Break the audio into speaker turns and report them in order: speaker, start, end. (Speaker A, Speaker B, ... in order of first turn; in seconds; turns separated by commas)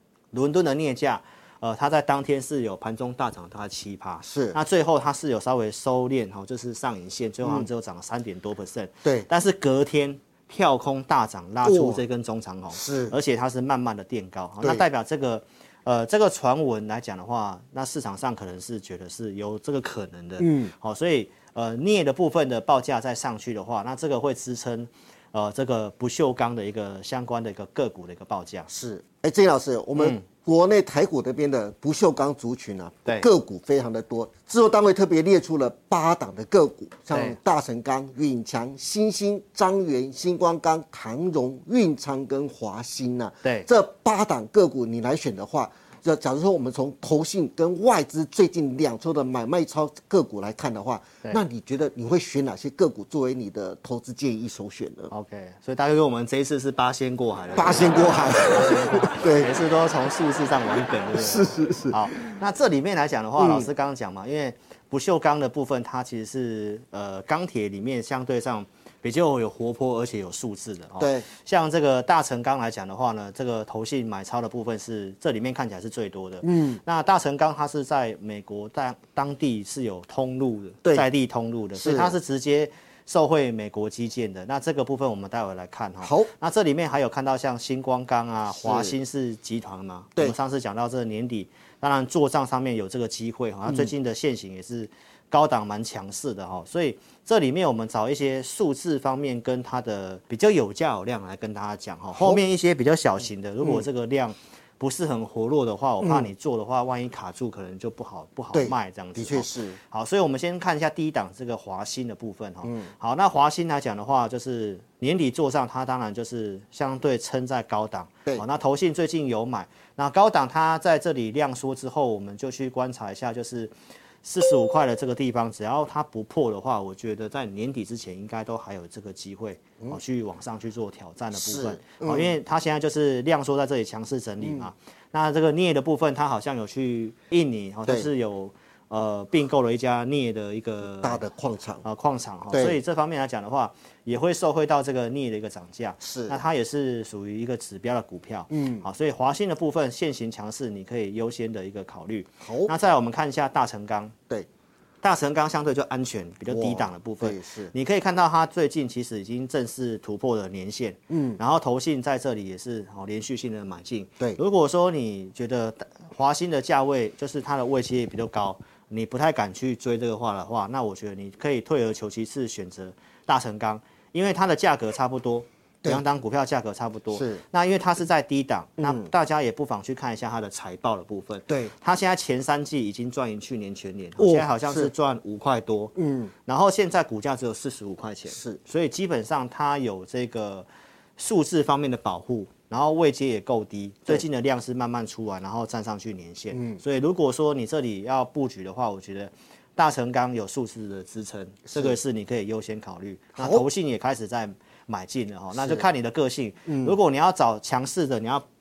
Speaker A: 0.3-28.7, Speaker B: 4.2-4.6, Speaker B: 7.4-7.7, Speaker B: 11.6-12.0, Speaker B: 12.7-13.1, Speaker B: 20.4-20.7, Speaker B: 28.7-55.1, Speaker A: 29.9-30.2, Speaker A: 37.1-37.4, Speaker A: 55.1-123.7, Speaker B: 57.5-59.5, Speaker B: 61.2-62.2, Speaker B: 63.4-63.7, Speaker B: 71.0-71.2, Speaker B: 76.4-76.8, Speaker B: 81.7-82.2, Speaker B: 86.0-86.3, Speaker B: 88.5-89.0, Speaker B: 93.7-93.9, Speaker B: 102.1-102.4, Speaker B: 106.0-106.3, Speaker B: 108.5-109.8, Speaker B: 112.6-112.9, Speaker A: 124.2-141.2, Speaker B: 131.3-132.3, Speaker B: 134.4-134.7, Speaker B: 141.0-141.8, Speaker A: 141.8-154.1, Speaker B: 142.5-142.8, Speaker B: 146.0-146.4, Speaker B: 148.5-148.9, Speaker B: 152.4-152.7, Speaker A: 155.0-185.9, Speaker B: 156.5-157.7, Speaker B: 161.1-161.4, Speaker B: 177.1-177.4, Speaker B: 178.8-179.1, Speaker B: 184.2-184.9, Speaker B: 185.9-186.3, Speaker A: 186.5-208.4, Speaker B: 188.3-188.6, Speaker B: 196.5-196.8, Speaker B: 203.3-203.7, Speaker B: 205.5-205.8, Speaker B: 206.7-206.9